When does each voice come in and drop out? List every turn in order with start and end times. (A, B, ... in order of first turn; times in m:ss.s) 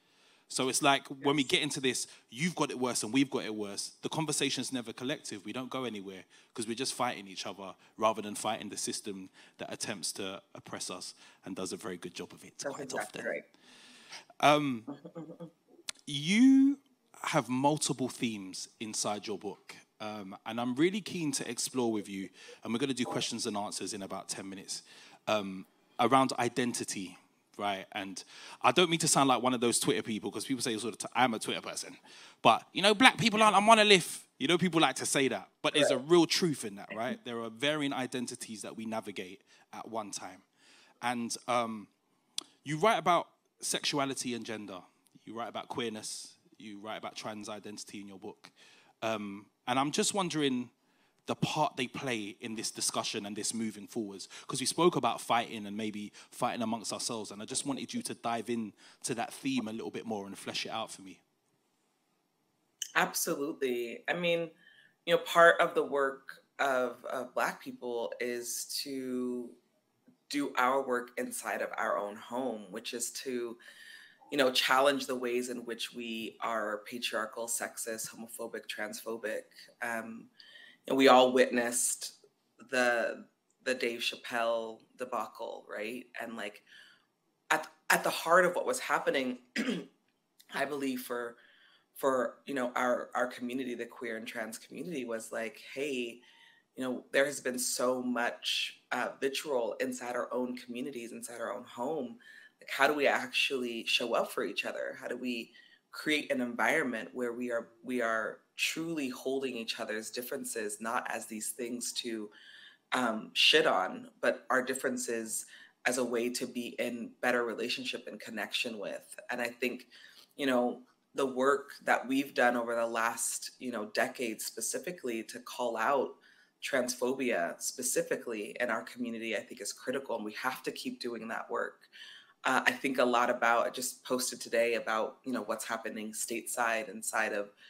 0:00.5-0:13.3 A
0:12.6-0:13.4 B
0:14.4-0:14.9 A
0:14.9-0:15.5 B
0:16.1-0:40.4 A
0:41.0-0:41.9 A
0:42.6-0:50.7 A
0:51.2-1:01.2 A
1:02.9-1:04.5 B
1:05.0-1:09.6 B
1:10.3-1:13.6 B
1:14.3-1:20.3 B
1:20.9-1:26.6 B
1:27.5-1:29.9 B
1:30.5-1:31.4 B
1:31.9-1:36.2 B
1:36.8-1:52.3 B
1:52.9-2:11.9 B
2:12.4-2:17.5 B